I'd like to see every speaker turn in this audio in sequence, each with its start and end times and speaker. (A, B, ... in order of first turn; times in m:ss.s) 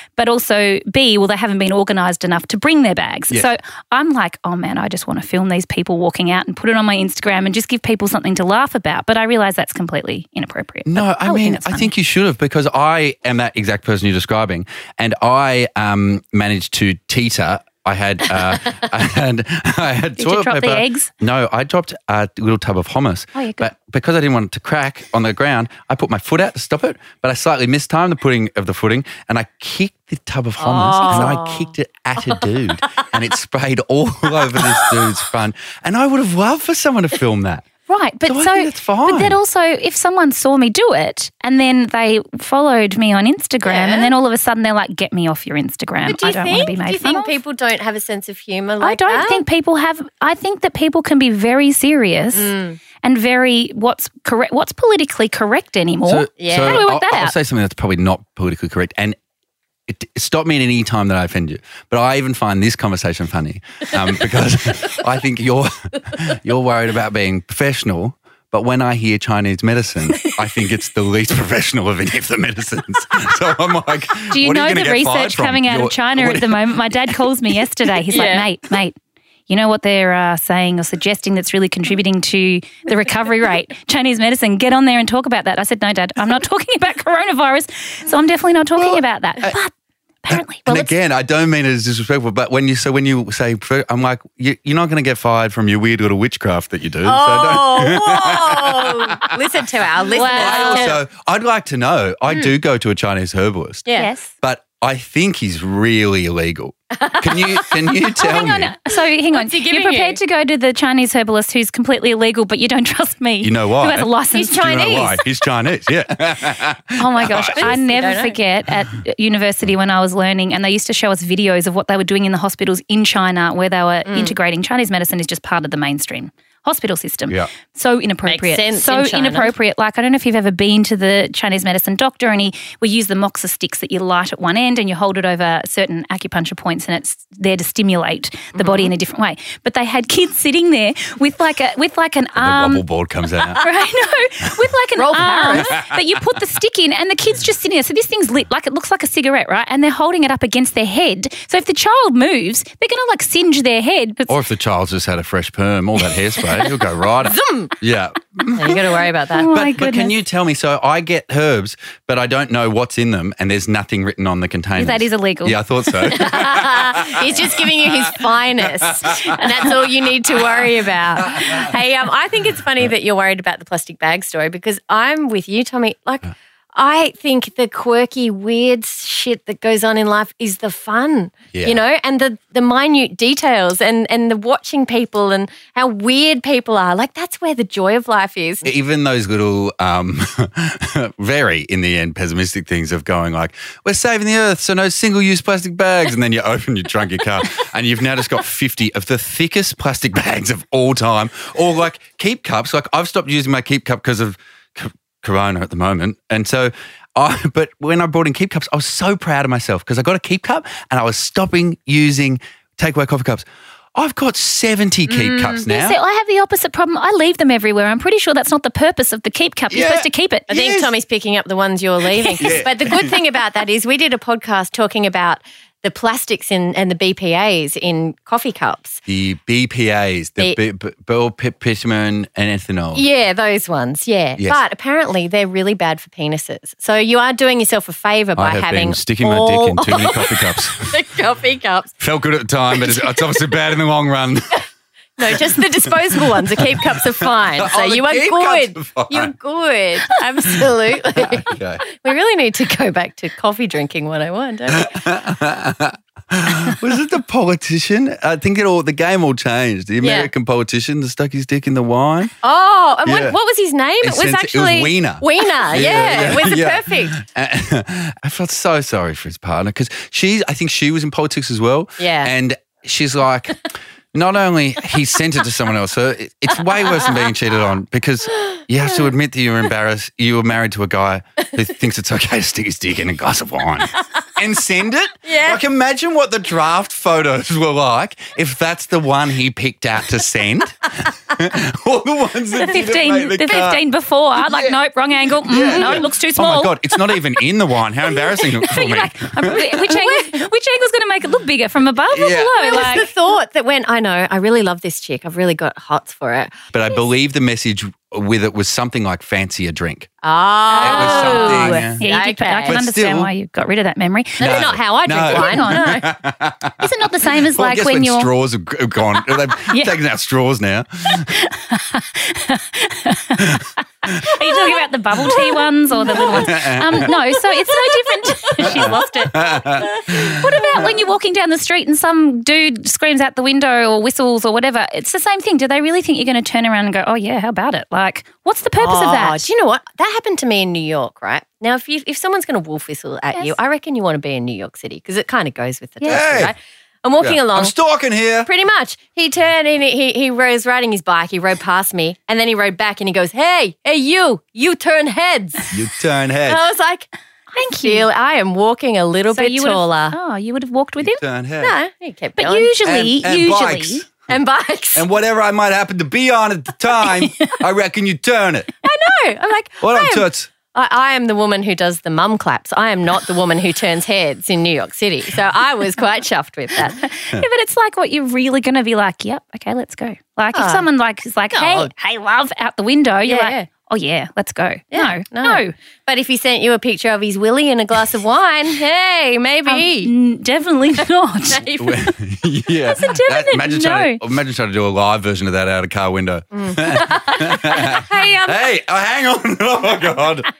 0:00.2-0:11.9 A
0:10.8-0:37.6 B
0:20.2-0:21.1 A
0:23.3-0:23.6 A
0:30.6-0:31.7 C
0:34.6-0:34.9 C
0:37.9-0:47.3 A
0:38.2-0:39.4 B
0:43.6-0:44.1 C
0:46.0-0:49.4 C
0:48.8-0:57.3 A
0:52.3-0:52.8 C
0:56.0-0:59.2 B
0:56.4-0:56.9 C
0:59.9-1:16.7 B
1:14.3-1:19.0 A
1:18.1-1:18.5 C
1:19.5-1:29.7 A
1:28.8-1:29.6 B
1:30.2-1:30.9 A
1:30.3-1:39.4 B
1:37.0-1:41.0 C
1:40.1-1:41.0 A
1:40.3-1:43.9 B
1:43.8-1:44.1 C
1:43.9-1:44.3 A
1:44.4-1:48.8 B
1:46.9-1:48.3 C
1:48.2-1:55.0 A
1:49.3-1:50.2 C
1:53.4-1:57.8 B
1:54.3-1:55.2 C
1:57.0-2:22.8 A
1:57.5-1:58.4 C
2:04.0-2:04.3 C
2:08.2-2:09.5 C
2:18.5-2:18.9 C
2:22.4-2:23.6 B
2:23.5-2:34.4 A
2:25.0-2:25.7 C
2:25.5-2:26.0 B
2:34.3-2:49.7 B
2:37.2-2:37.7 C
2:38.5-2:39.5 C
2:39.3-2:40.1 A
2:44.8-2:45.6 A
2:46.0-3:08.7 C
2:50.4-2:50.6 B
2:51.2-2:51.7 B
3:01.5-3:01.8 B
3:08.6-3:36.0 B
3:35.1-3:35.6 C
3:35.6-3:40.5 A
3:39.7-3:40.9 B
3:40.5-3:49.0 C
3:42.3-3:43.2 B
3:49.0-3:53.0 B
3:52.9-4:01.9 C
3:58.4-4:01.0 B
4:02.0-4:04.6 B
4:02.7-4:03.3 C
4:05.2-4:15.0 C
4:05.2-4:09.3 B
4:10.5-4:11.8 B
4:14.7-4:22.3 B
4:20.0-4:20.3 C
4:22.4-4:27.2 C
4:23.0-4:23.4 B
4:24.0-4:53.8 B
4:32.0-4:32.3 C
4:36.9-4:37.3 C
4:45.2-4:45.6 C
4:52.7-4:56.8 A
4:54.4-4:54.7 B
4:55.4-4:59.9 B
4:55.8-4:56.0 C
4:58.6-5:03.0 A
4:59.8-5:00.4 C
5:02.1-5:03.1 B
5:02.7-5:06.5 C
5:06.7-5:10.1 B
5:10.2-5:12.8 C
5:10.7-5:16.0 A
5:10.8-5:12.0 B
5:12.6-5:13.3 B
5:14.4-5:16.1 C
5:14.4-5:21.3 B
5:16.8-5:18.3 A
5:19.6-5:20.0 A
5:21.1-5:39.4 A
5:24.1-5:24.3 B
5:26.1-5:27.1 B
5:27.1-5:30.9 C
5:28.6-5:30.9 B
5:38.8-5:47.7 C
5:46.0-5:46.5 B
5:47.2-5:48.5 B
5:48.4-5:55.7 C
5:55.7-5:56.6 B
5:56.4-6:00.2 C
5:57.6-5:58.1 A
5:59.3-6:01.2 A
6:01.0-6:01.7 B
6:01.6-6:02.7 C
6:02.4-6:04.0 A
6:02.8-6:04.1 B
6:04.3-6:05.0 C
6:04.9-6:08.7 B
6:08.8-6:17.0 C
6:09.8-6:10.5 B
6:17.0-6:25.7 A
6:20.5-6:20.8 C
6:21.5-6:21.9 C
6:23.2-6:23.7 C
6:24.9-6:30.1 C
6:29.7-6:31.7 A
6:31.5-6:32.1 C
6:31.8-6:40.5 B
6:32.9-6:34.2 A
6:36.5-6:38.6 C